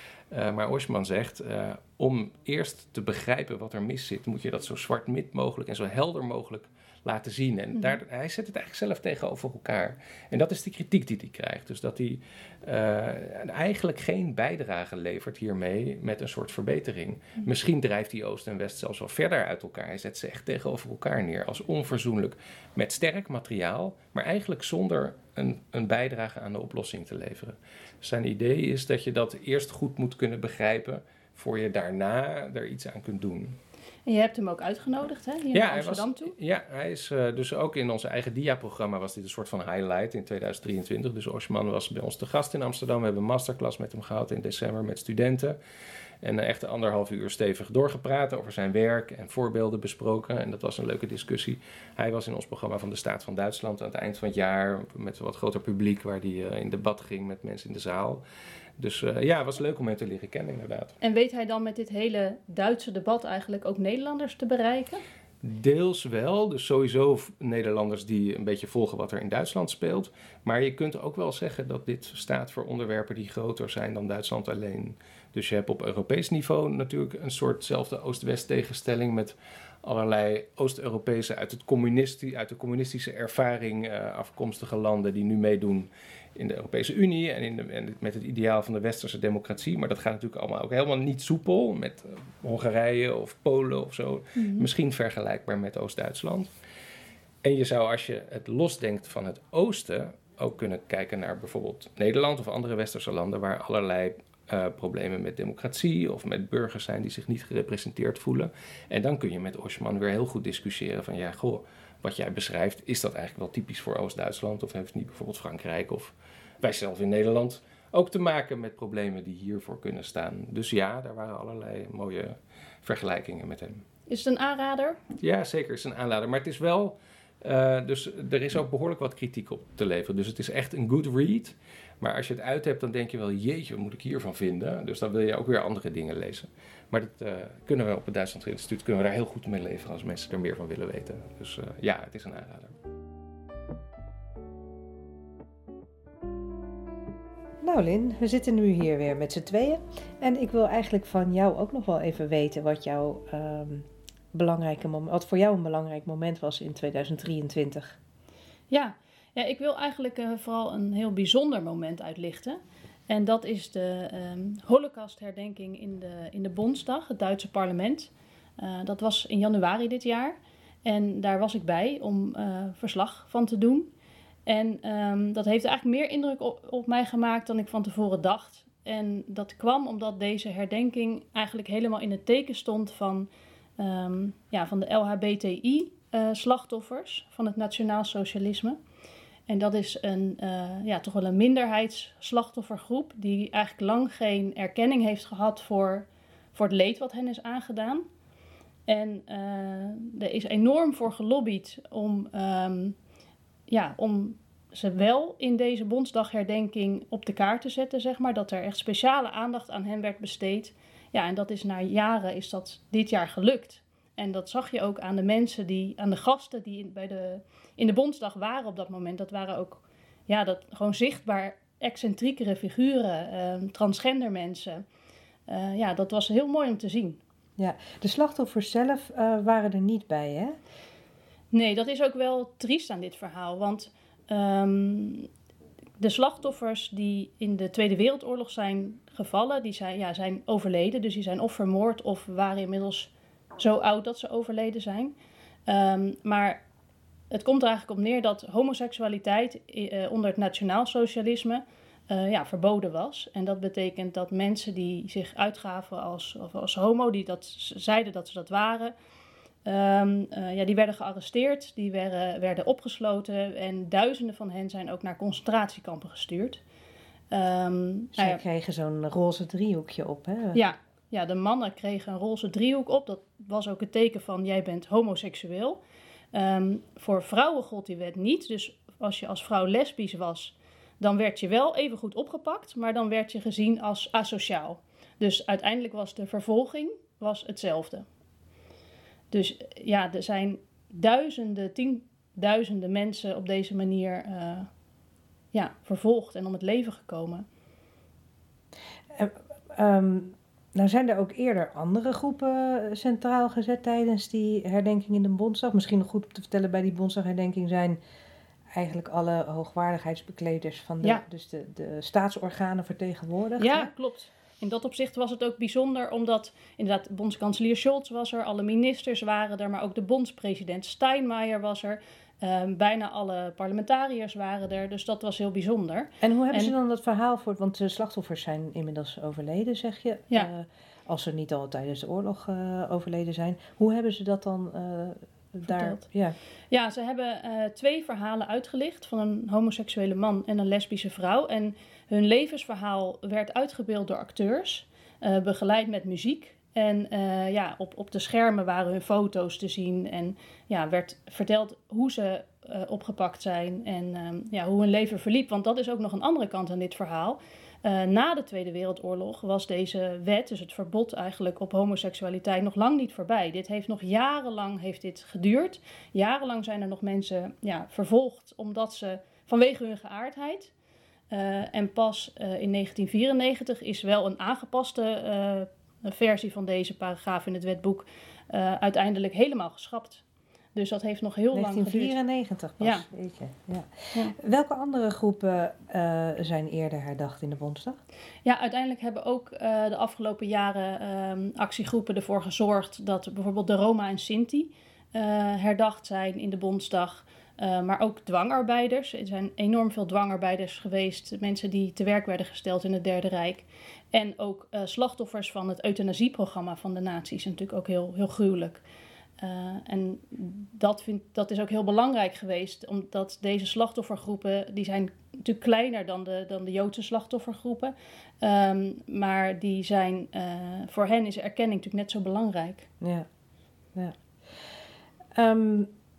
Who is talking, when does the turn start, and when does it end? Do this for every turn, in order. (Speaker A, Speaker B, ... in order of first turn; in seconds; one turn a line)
Speaker A: 0.3-33.6
Speaker B: 34.0-36.3
Speaker A: 35.5-45.6
Speaker A: 46.2-58.2
Speaker A: 58.8-61.0
Speaker B: 61.0-65.0
Speaker A: 65.4-96.5
Speaker B: 94.4-94.7
Speaker A: 97.4-123.8
Speaker B: 124.1-125.0
Speaker A: 125.2-142.7
Speaker C: 147.6-158.0
Speaker B: 158.7-173.9
Speaker B: 174.4-188.8
Speaker B: 189.5-198.1
Speaker B: 198.9-202.9
Speaker B: 203.7-224.8
Speaker B: 225.5-227.2
Speaker C: 227.6-230.5
Speaker B: 231.5-235.3
Speaker B: 236.0-245.1
Speaker B: 245.7-246.6
Speaker B: 247.3-258.9
Speaker B: 259.6-266.6
Speaker B: 267.3-268.4
Speaker C: 268.1-270.6
Speaker B: 270.5-275.8
Speaker B: 276.3-288.1
Speaker B: 289.3-294.7
Speaker B: 295.5-297.4
Speaker C: 299.1-308.0
Speaker C: 308.7-313.9
Speaker B: 313.6-326.7
Speaker C: 326.2-336.4
Speaker B: 335.7-336.0
Speaker B: 336.7-370.7
Speaker B: 371.3-380.2
Speaker B: 380.7-382.2
Speaker C: 381.5-388.0
Speaker B: 382.8-383.0
Speaker B: 388.4-408.8
Speaker B: 409.4-422.9
Speaker C: 423.0-423.3
Speaker C: 425.4-425.9